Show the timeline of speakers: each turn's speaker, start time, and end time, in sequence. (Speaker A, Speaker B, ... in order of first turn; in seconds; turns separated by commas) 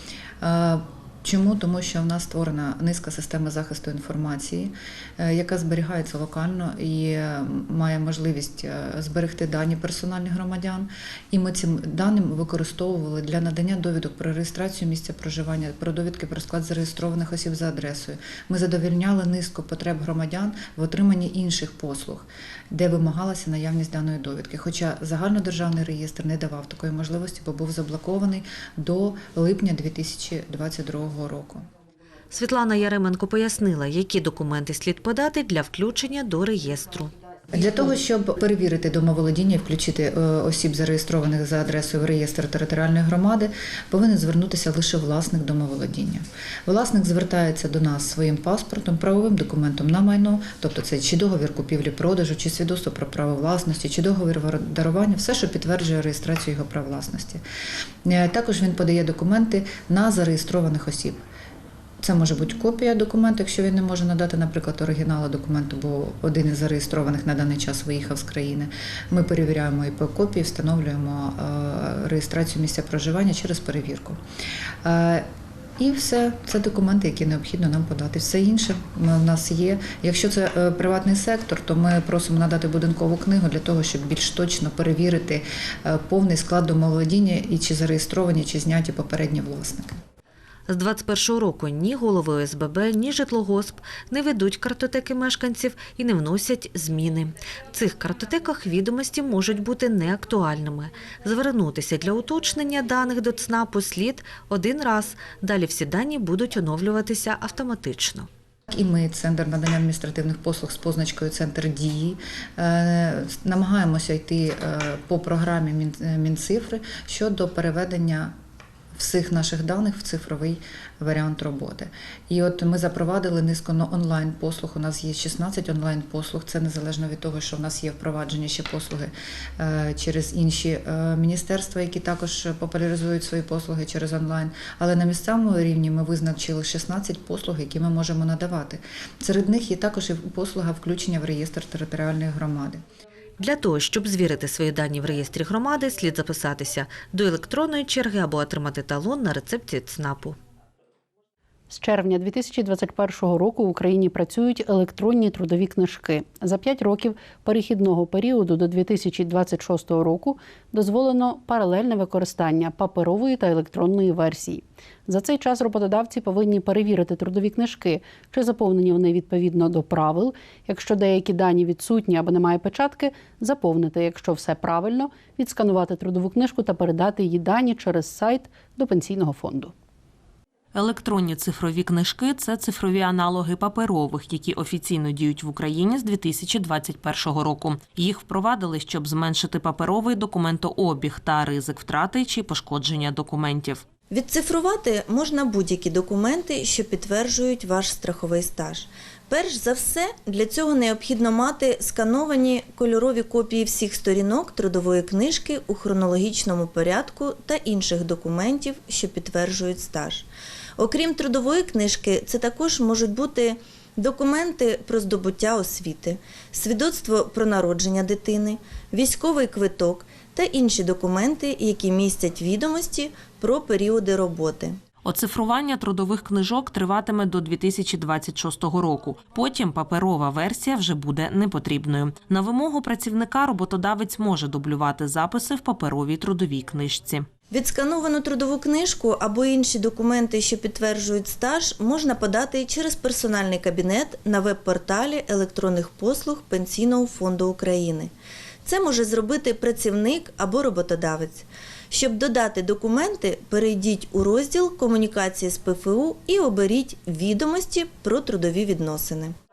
Speaker A: 0.4-31.6, Speaker B: 32.3-37.1, Speaker A: 37.5-57.4, Speaker A: 58.0-61.2, Speaker A: 62.0-74.2, Speaker A: 74.8-75.2, Speaker A: 75.8-90.0, Speaker B: 90.7-108.3, Speaker A: 108.7-118.3, Speaker A: 119.0-142.8, Speaker B: 143.4-150.4, Speaker C: 151.7-179.7, Speaker D: 180.7-193.8, Speaker E: 194.1-210.3, Speaker E: 210.8-224.8, Speaker D: 225.0-237.3, Speaker E: 237.5-248.1, Speaker E: 248.6-259.3